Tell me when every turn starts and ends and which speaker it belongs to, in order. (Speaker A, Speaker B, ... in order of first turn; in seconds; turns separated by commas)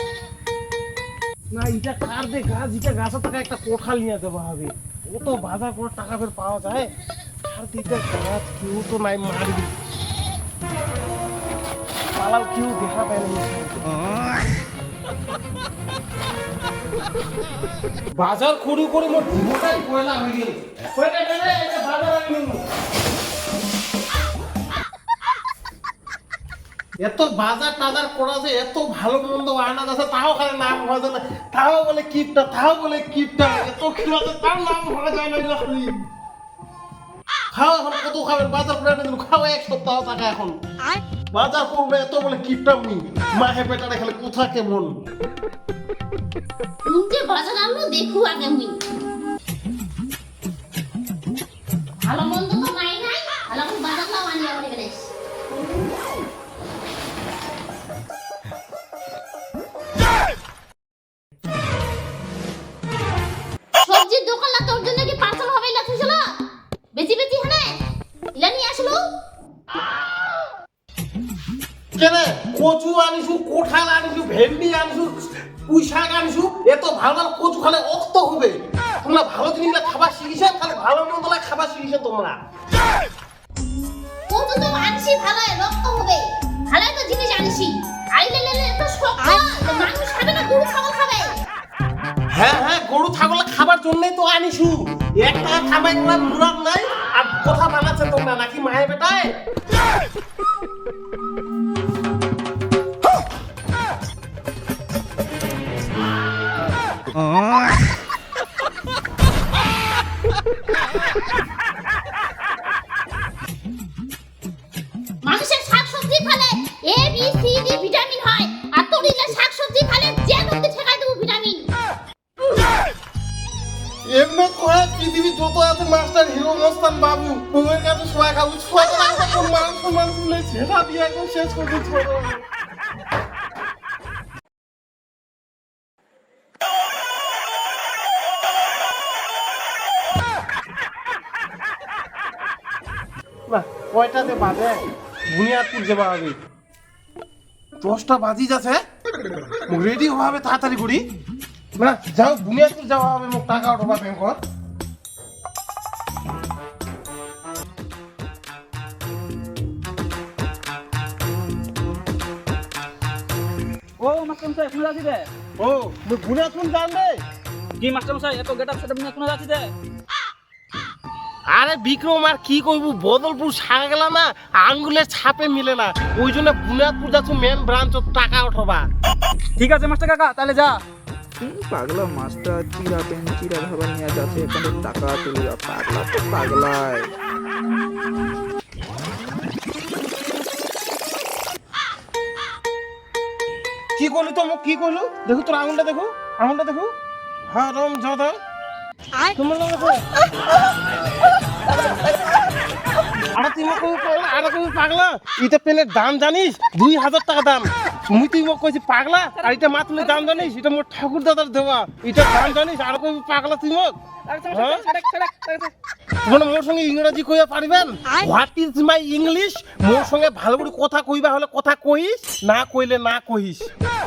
Speaker A: 1.5-6.9, Speaker A: 7.4-9.7, Speaker A: 12.2-13.9, Speaker A: 18.1-22.6, Speaker A: 27.0-36.0, Speaker A: 37.5-40.5, Speaker A: 41.3-44.9, Speaker B: 46.9-48.8, Speaker B: 52.0-55.1, Speaker B: 63.8-66.2, Speaker B: 66.9-67.8, Speaker B: 68.3-69.0, Speaker A: 72.0-82.4, Speaker B: 84.3-91.4, Speaker A: 92.3-99.3, Speaker B: 115.2-121.7, Speaker A: 124.0-132.4, Speaker B: 128.8-129.7, Speaker A: 143.5-146.3, Speaker A: 147.8-148.8, Speaker A: 149.7-151.0, Speaker A: 151.8-154.4, Speaker C: 164.0-165.3, Speaker A: 165.6-167.2, Speaker C: 167.8-169.7, Speaker A: 171.5-178.9, Speaker C: 179.6-180.8, Speaker D: 181.4-187.1, Speaker A: 194.0-196.9, Speaker A: 197.5-198.4, Speaker A: 199.3-200.0, Speaker A: 203.3-213.9, Speaker C: 209.4-210.3, Speaker C: 214.3-215.7, Speaker A: 214.5-214.8, Speaker A: 216.2-223.7